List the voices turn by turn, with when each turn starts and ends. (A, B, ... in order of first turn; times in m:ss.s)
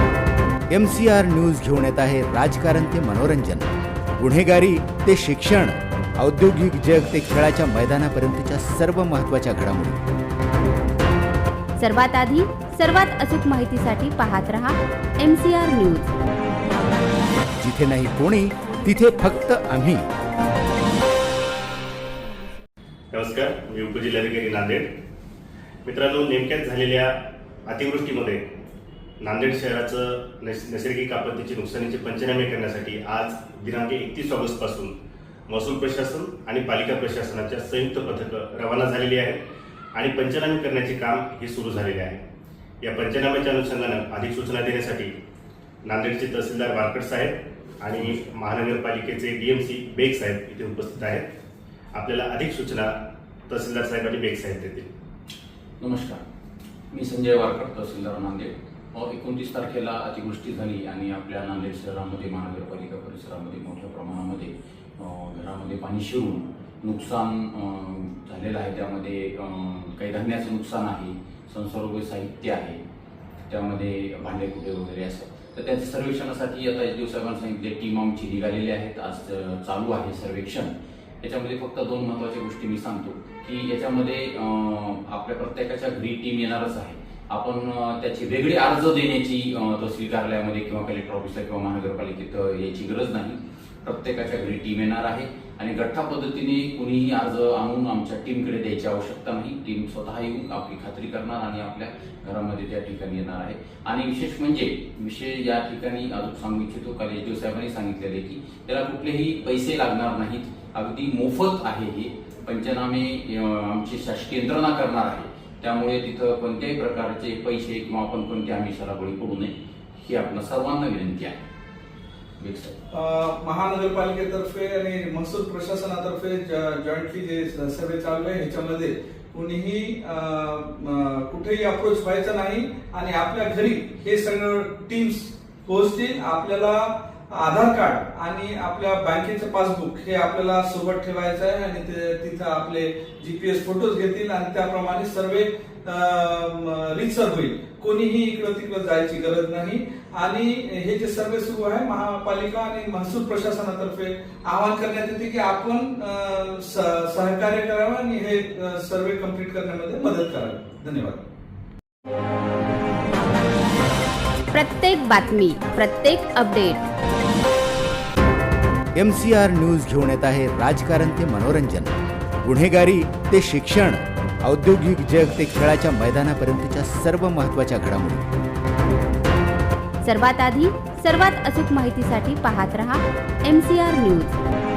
0:00.7-0:10.0 A
0:11.8-0:16.1 B
0:17.6-0:20.1 A
0:23.1-0:24.9 C
0:25.8-0:27.2 C
0:27.7-0:28.4 C
0:29.2-0:34.9 C
0:35.5-0:39.4 C
0:40.0-0:42.2 C
0:42.8-0:45.1 C
0:45.8-0:51.3 C
0:51.9-0:52.9 C
0:53.5-0:54.9 C
0:55.8-0:56.2 D
0:56.9-1:12.8 D
1:13.5-2:01.4 D
2:02.4-2:02.8 D
2:02.9-2:41.2 E
2:44.5-2:46.8 B
2:49.0-2:58.3 A
3:00.0-3:04.4 B